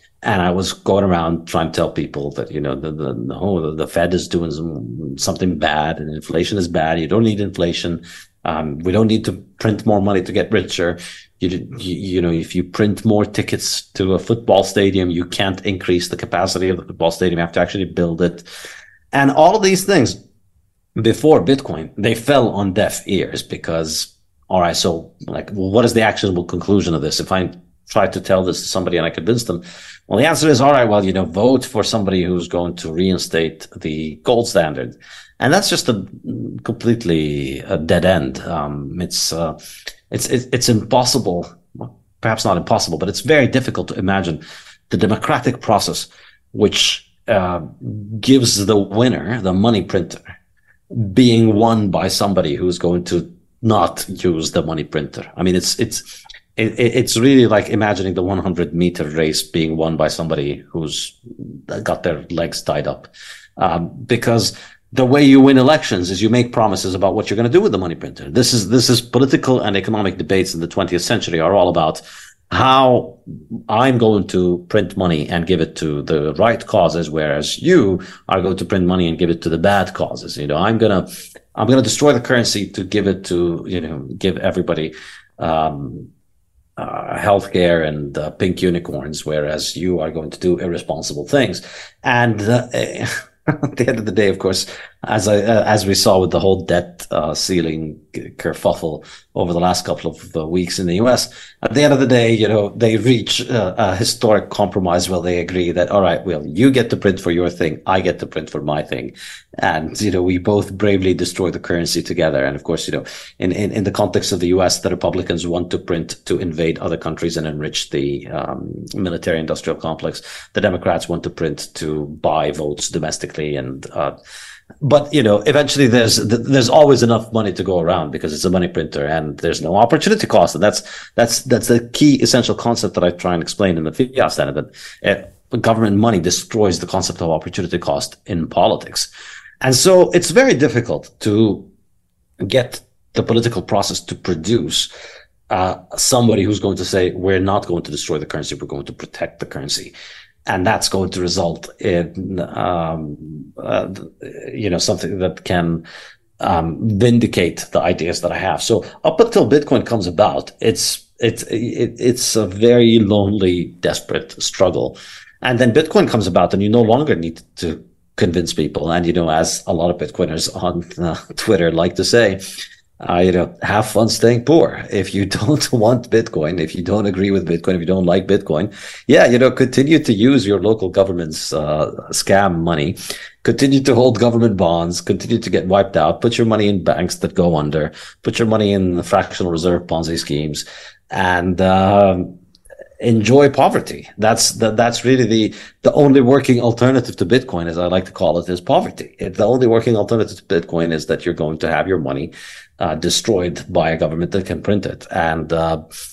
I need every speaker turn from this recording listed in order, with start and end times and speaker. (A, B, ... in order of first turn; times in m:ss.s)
0:00.2-0:18.4 A
0:19.1-0:20.2 A
0:21.0-0:39.6 A
0:40.1-0:50.2 A
0:50.9-1:13.2 A
1:13.7-1:26.1 A
1:26.8-2:04.1 A
2:04.8-2:19.1 A
2:19.6-2:21.6 A
2:22.4-2:24.9 A
2:25.5-2:29.9 A
2:30.5-2:35.8 A
2:36.4-2:52.4 A
2:53.0-3:12.3 A
3:13.0-3:25.8 A